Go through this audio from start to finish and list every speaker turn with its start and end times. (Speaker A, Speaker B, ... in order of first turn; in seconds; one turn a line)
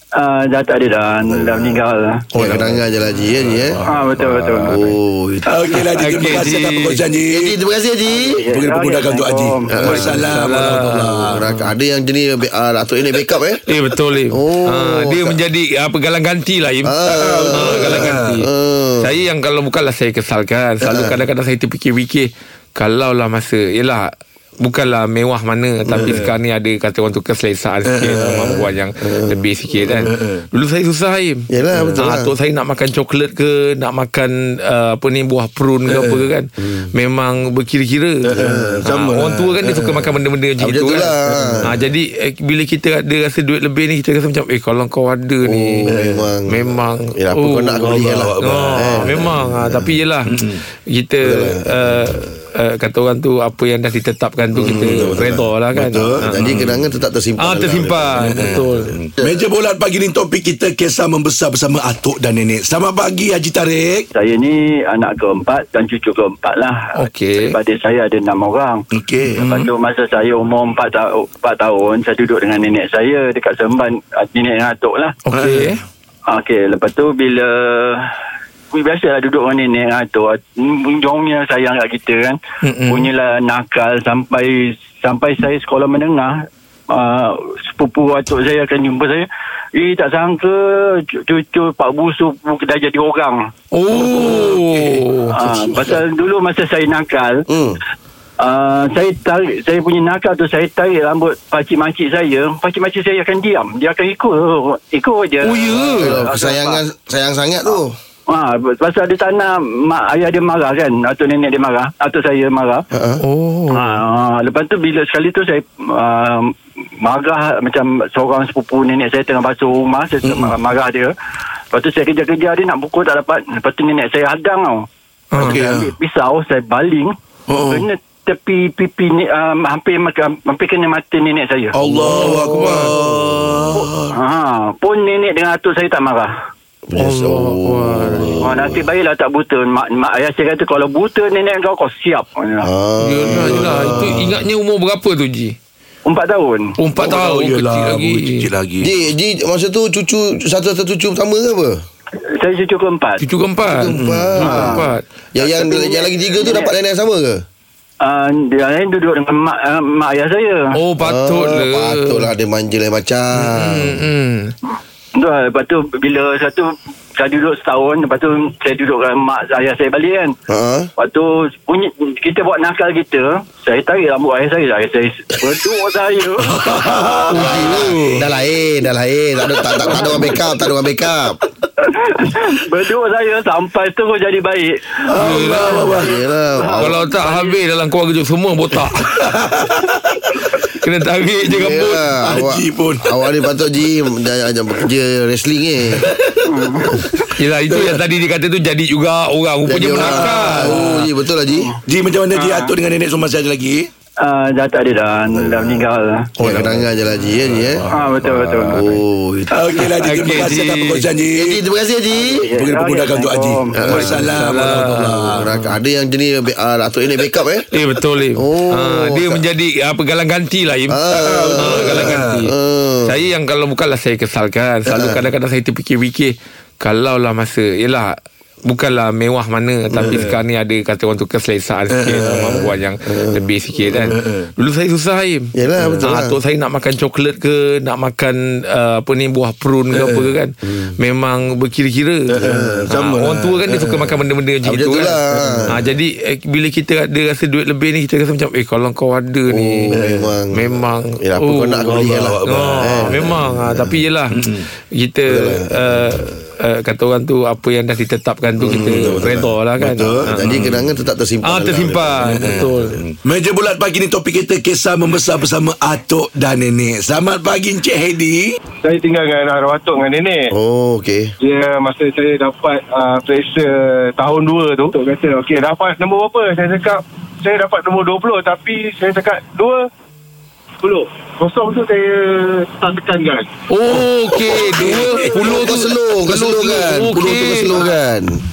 Speaker A: 0.1-2.2
Speaker B: 1.3-1.8
Speaker B: 2.3-3.9
Speaker C: 2.4-2.7
Speaker D: 2.4-2.8
Speaker D: 3.4-3.9
Speaker A: 3.8-4.8
Speaker C: 4.2-4.9
Speaker B: 4.6-5.8
Speaker D: 5.4-7.5
Speaker C: 5.9-7.0
Speaker B: 7.3-8.4
Speaker A: 8.1-9.9
Speaker D: 8.5-11.4
Speaker B: 9.7-13.6
Speaker C: 9.8-11.7
Speaker C: 13.7-16.9
Speaker B: 14.3-15.4
Speaker B: 16.8-19.1
Speaker D: 17.0-18.4
Speaker C: 17.5-18.5
Speaker C: 19.0-38.3
Speaker B: 20.8-21.2
Speaker B: 25.9-26.2
Speaker D: 26.0-26.3
Speaker D: 27.9-28.6
Speaker B: 29.0-30.1
Speaker D: 30.0-30.4
Speaker B: 31.5-32.3
Speaker D: 31.8-32.0
Speaker D: 35.9-36.2
Speaker B: 36.6-36.9
Speaker D: 38.2-40.1
Speaker B: 38.3-38.8
Speaker C: 38.9-41.1
Speaker B: 40.6-41.7
Speaker D: 41.3-41.7
Speaker C: 41.6-45.9
Speaker B: 45.4-49.9
Speaker D: 45.9-46.3
Speaker C: 46.5-56.1
Speaker D: 47.9-49.4
Speaker D: 50.3-50.6
Speaker B: 51.2-52.2
Speaker B: 54.5-58.6
Speaker D: 54.7-56.8
Speaker C: 57.4-58.9
Speaker D: 58.2-64.1
Speaker A: 64.1-75.2
Speaker C: 67.0-67.5
Speaker D: 68.9-69.7
Speaker C: 75.2-75.8
Speaker D: 75.3-75.8
Speaker A: 76.3-78.1
Speaker A: 78.7-93.5
Speaker C: 82.6-83.1
Speaker C: 93.7-95.3
Speaker D: 93.9-95.9
Speaker A: 95.3-97.5
Speaker B: 97.5-97.8
Speaker A: 98.4-106.8
Speaker C: 105.4-106.2
Speaker B: 105.9-108.0
Speaker A: 108.3-112.8
Speaker B: 112.9-113.2
Speaker C: 113.2-114.0
Speaker A: 113.7-121.1
Speaker D: 120.2-120.5
Speaker A: 121.7-124.9
Speaker C: 125.3-125.6
Speaker D: 125.3-125.9
Speaker A: 125.4-131.7
Speaker D: 127.5-127.9
Speaker D: 131.7-134.1
Speaker B: 131.8-133.8
Speaker C: 132.1-132.9
Speaker A: 133.8-136.3
Speaker B: 136.9-138.8
Speaker C: 136.9-138.4
Speaker A: 138.4-142.7
Speaker B: 142.6-144.3
Speaker C: 143.0-145.5
Speaker D: 143.3-144.3
Speaker A: 146.0-146.8
Speaker C: 146.8-148.5
Speaker D: 146.9-148.9
Speaker B: 148.8-151.8
Speaker A: 152.3-153.2
Speaker C: 153.2-155.0
Speaker B: 153.7-157.4
Speaker D: 153.9-154.4
Speaker A: 154.4-156.7
Speaker A: 158.0-160.7
Speaker C: 160.7-162.3
Speaker B: 161.0-164.0
Speaker C: 163.3-164.5
Speaker A: 165.1-170.3
Speaker B: 170.5-170.9
Speaker A: 171.0-176.6
Speaker D: 176.4-178.2
Speaker C: 177.3-178.2
Speaker B: 177.3-181.4
Speaker D: 179.9-180.3
Speaker A: 181.8-185.0
Speaker D: 185.0-186.1
Speaker C: 185.1-186.0
Speaker B: 185.9-187.0
Speaker A: 186.6-187.6
Speaker C: 186.7-189.3
Speaker D: 189.0-190.5
Speaker C: 190.8-192.2
Speaker B: 191.5-196.1
Speaker D: 192.2-193.0
Speaker D: 195.9-196.5
Speaker A: 196.4-197.1
Speaker C: 197.3-201.0
Speaker B: 199.7-201.7
Speaker D: 200.0-201.1
Speaker D: 201.8-203.9
Speaker A: 202.3-202.7
Speaker A: 204.2-206.3
Speaker B: 205.3-205.8
Speaker B: 206.4-207.9
Speaker C: 206.4-206.8
Speaker D: 207.6-207.8
Speaker A: 207.9-208.9
Speaker B: 208.6-209.6
Speaker D: 209.5-211.6
Speaker C: 210.0-211.1
Speaker B: 211.3-212.5
Speaker A: 212.1-214.1
Speaker D: 212.5-215.6
Speaker B: 213.7-217.7
Speaker C: 214.3-215.4
Speaker C: 217.7-221.0
Speaker B: 218.4-219.4
Speaker B: 220.9-223.2
Speaker D: 221.1-222.4
Speaker C: 221.6-249.9
Speaker D: 230.0-230.4
Speaker D: 231.9-232.7
Speaker B: 233.1-234.1
Speaker D: 234.0-234.5
Speaker B: 235.6-236.3
Speaker D: 235.8-236.1
Speaker D: 239.9-240.3
Speaker B: 240.6-240.9
Speaker D: 242.3-244.2
Speaker B: 242.4-242.9
Speaker B: 244.6-245.8
Speaker D: 245.3-245.8
Speaker B: 249.5-254.0
Speaker D: 249.9-250.3
Speaker C: 250.5-260.7
Speaker D: 252.1-253.3
Speaker D: 254.3-254.7
Speaker B: 255.3-256.3
Speaker B: 258.6-262.7
Speaker D: 258.6-260.9
Speaker C: 261.4-263.0
Speaker D: 262.2-268.6
Speaker E: 268.8-270.5
Speaker B: 270.5-271.3
Speaker E: 271.4-279.9
Speaker E: 280.8-283.5
Speaker C: 283.7-287.9
Speaker D: 283.9-285.5
Speaker B: 285.3-288.4